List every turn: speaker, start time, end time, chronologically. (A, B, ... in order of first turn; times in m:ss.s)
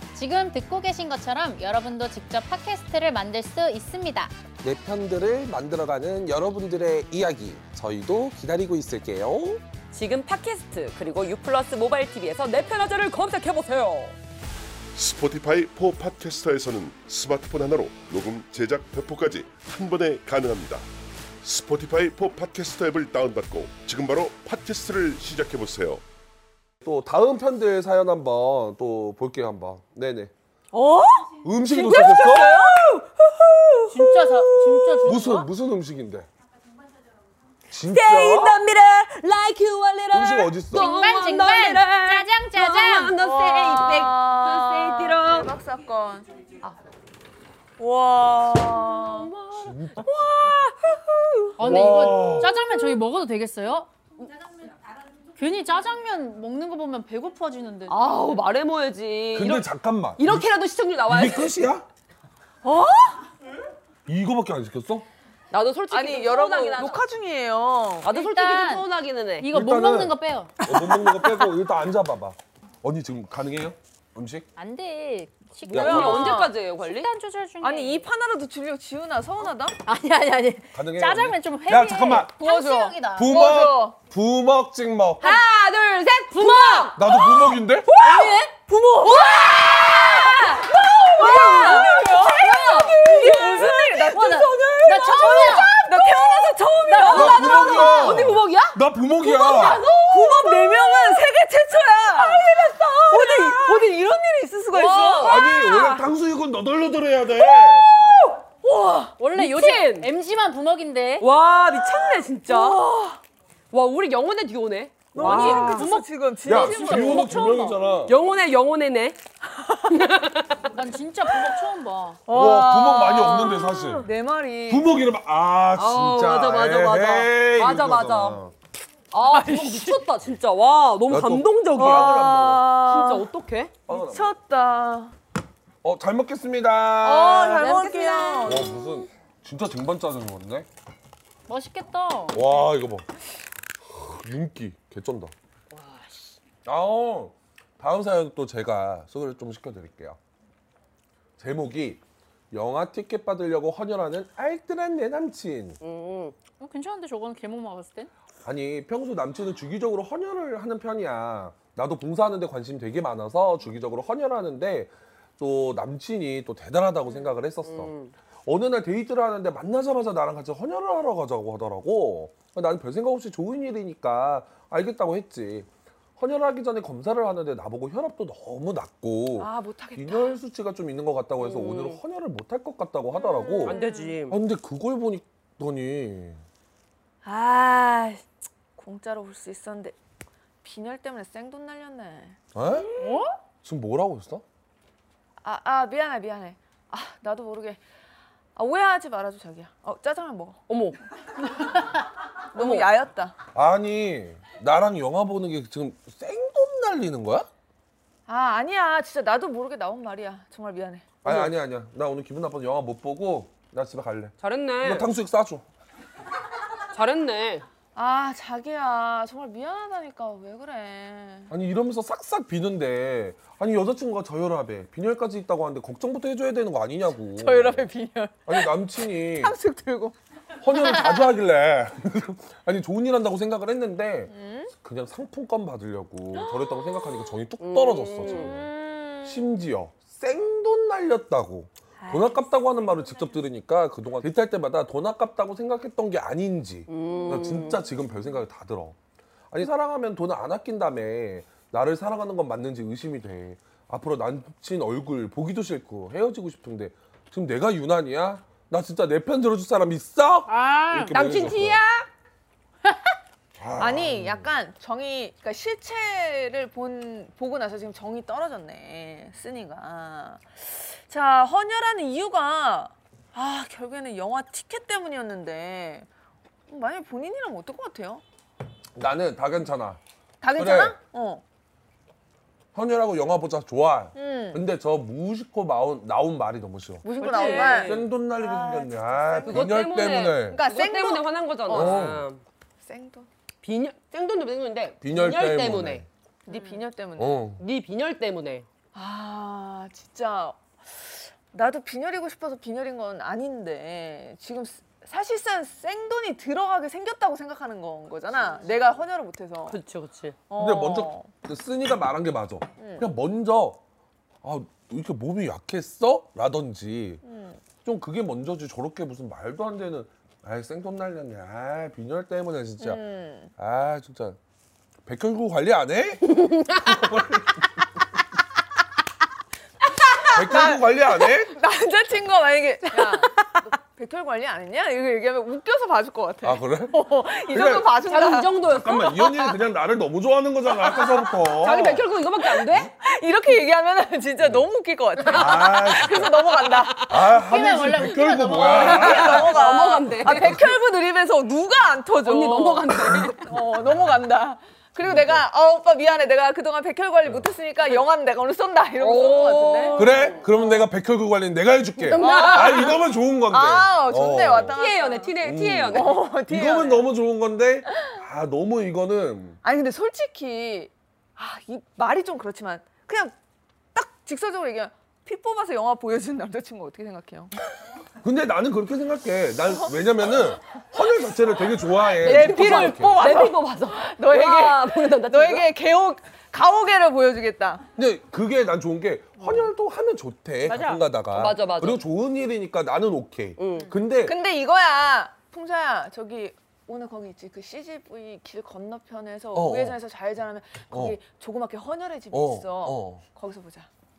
0:00.1-0:04.3 A
0:04.6-0:09.6 B
0:09.9-0:14.1 C
0:14.9-0:20.9 D
0:21.4-0:26.0 D
0:26.8-0:30.3 B
0:30.7-0:32.9 E
0:31.4-0:32.6 B
0:31.7-0:35.4 C
0:33.9-0:35.5 A
0:35.0-0:36.3 B
0:37.7-0:38.6 B
0:37.8-0:45.5 C
0:40.1-0:40.8 B
0:40.7-0:43.2 A
0:43.2-0:46.3 E
0:47.8-0:49.3 E
0:48.5-0:52.4 C
0:49.6-0:50.1 B
0:51.6-0:53.9 A
0:51.6-0:52.6 B
0:55.3-0:58.3 A
0:57.9-1:01.6 C
0:59.3-1:00.5 B
1:01.0-1:01.8 B
1:02.6-1:03.2 E
1:04.1-1:05.1 B
1:05.5-1:07.0 C
1:05.9-1:08.1 E
1:08.1-1:09.5 C
1:08.1-1:08.8 A
1:09.4-1:11.5 A
1:09.5-1:14.5 B
1:14.6-1:18.1 A
1:15.7-1:16.5 E
1:15.7-1:17.1 C
1:15.7-1:16.2 B
1:17.6-1:19.8 E
1:19.8-1:23.4 A
1:20.7-1:22.3 B
1:22.4-1:24.0 E
1:23.2-1:25.4 B
1:25.2-1:41.3 C
1:26.4-1:26.9 A
1:27.0-1:27.9 B
1:28.0-1:29.2 A
1:29.0-1:34.5 E
1:31.2-1:32.0 A
1:32.9-1:38.1 A
1:35.1-1:38.3 E
1:37.1-1:39.9 B
1:39.4-1:40.0 A
1:40.0-1:42.5 E
1:42.2-1:44.0 C
1:43.1-1:46.1 E
1:44.7-1:45.4 C
1:45.2-1:47.9 B
1:47.6-1:47.9 E
1:48.5-1:49.2 E
1:49.2-1:51.2 A
1:49.3-1:50.1 C
1:51.2-1:52.8 C
1:52.4-1:53.2 E
1:53.7-1:55.9 C
1:55.1-1:57.8 E
1:55.2-1:57.4 A
1:56.5-1:58.2 B
1:58.1-1:59.2 C
1:59.5-2:00.2 E
1:59.9-2:00.7 C
2:00.6-2:02.2 A
2:02.3-2:05.0 E
2:02.3-2:04.1 B
2:04.7-2:08.5 B
2:05.8-2:08.4 C
2:09.1-2:13.7 C
2:09.2-2:10.0 E
2:11.1-2:12.7 B
2:11.8-2:13.3 E
2:13.9-2:14.3 B
2:13.9-2:15.1 E
2:15.8-2:17.7 B
2:17.0-2:18.7 E
2:17.5-2:18.6 A
2:18.4-2:20.7 B
2:21.5-2:22.4 A
2:22.3-2:23.1 B
2:23.8-2:25.3 B
2:25.7-2:26.4 C
2:26.6-2:30.2 B
2:31.4-2:32.0 B
2:32.5-2:35.8 B
2:35.8-2:36.4 C
2:36.6-2:38.1 A
2:38.4-2:47.9 B
2:47.6-2:48.1 C
2:48.4-3:06.4 B
2:59.4-3:00.4 E
3:01.4-3:02.0 C
3:03.1-3:04.2 E
3:03.6-3:04.4 C
3:07.2-3:09.9 E
3:10.6-3:12.4 E
3:12.5-3:12.9 B
3:13.0-3:13.3 A
3:13.6-3:14.4 B
3:15.4-3:17.8 E
3:18.5-3:20.6 E
3:20.7-3:21.0 C
3:22.5-3:23.3 E
3:22.6-3:22.9 C
3:23.5-3:27.5 B
3:28.3-3:31.1 E
3:31.2-3:35.6 B
3:31.2-3:31.5 C
3:34.4-3:35.1 C
3:36.9-3:37.6 C
3:37.9-3:41.5 E
3:41.5-3:47.9 B
3:47.4-3:50.1 E
3:48.4-3:49.6 B
3:50.6-3:58.7 B
3:54.3-3:54.7 E
3:57.6-3:58.5 C
3:58.3-3:59.6 E
3:59.2-4:09.0 B
4:02.0-4:02.4 E
4:06.9-4:07.8 C
4:09.5-4:21.8 B
4:20.5-4:21.2 A
4:21.1-4:22.1 C
4:22.9-4:23.1 A
4:23.6-4:24.5 B
4:23.8-4:36.1 E
4:36.7-4:38.2 E
4:38.9-4:40.0 B
4:40.4-4:41.4 E
4:40.6-4:41.0 B
4:42.7-4:50.6 B
4:44.1-4:44.6 E
4:47.0-4:52.2 E
4:47.2-4:48.1 C
4:49.5-4:52.4 C
4:51.7-4:52.2 B
4:52.8-4:53.3 E
4:53.6-4:56.0 C
4:55.0-4:56.1 B
4:56.4-4:57.4 E
4:57.2-4:57.6 B
4:57.6-4:58.6 C
4:58.9-5:09.8 E
5:09.7-5:10.4 C
5:10.5-5:11.3 E
5:10.6-5:13.8 B
5:12.8-5:13.1 E
5:14.4-5:17.2 B
5:17.2-5:17.6 E
5:17.8-5:23.0 B
5:22.8-5:23.5 E
5:23.6-5:24.4 B
5:25.1-5:27.8 B
5:26.2-5:26.9 C
5:29.9-5:38.6 E
5:30.3-5:31.6 B
5:36.4-5:37.0 B
5:37.5-5:37.9 B
5:37.5-5:39.6 C
5:38.6-5:42.0 B
5:40.8-5:41.9 E
5:41.5-5:42.9 C
5:42.6-5:47.1 E
5:45.3-5:46.4 B
5:45.4-5:45.9 C
5:46.6-5:47.1 C
5:47.0-5:49.6 B
5:47.2-5:49.5 A
5:48.5-6:00.1 E
5:48.7-5:50.6 C
5:52.2-5:53.6 C
5:55.1-5:55.4 B
5:59.0-6:00.5 C
6:00.0-6:04.8 B
6:02.0-6:02.9 C
6:02.1-6:05.3 E
6:02.2-6:02.7 A
6:04.8-6:06.2 C
6:05.4-6:09.6 B
6:05.9-6:07.1 E
6:09.6-6:13.3 E
6:13.9-6:17.5 E
6:18.2-6:23.4 B
6:22.2-6:25.7 C
6:22.2-6:27.9 E
6:28.0-6:34.3 B
6:29.4-6:29.7 E
6:31.3-6:32.0 C
6:33.6-6:33.9 C
6:34.2-6:43.9 E
6:39.5-6:40.0 B
6:40.9-6:41.2 B
6:42.3-6:43.2 B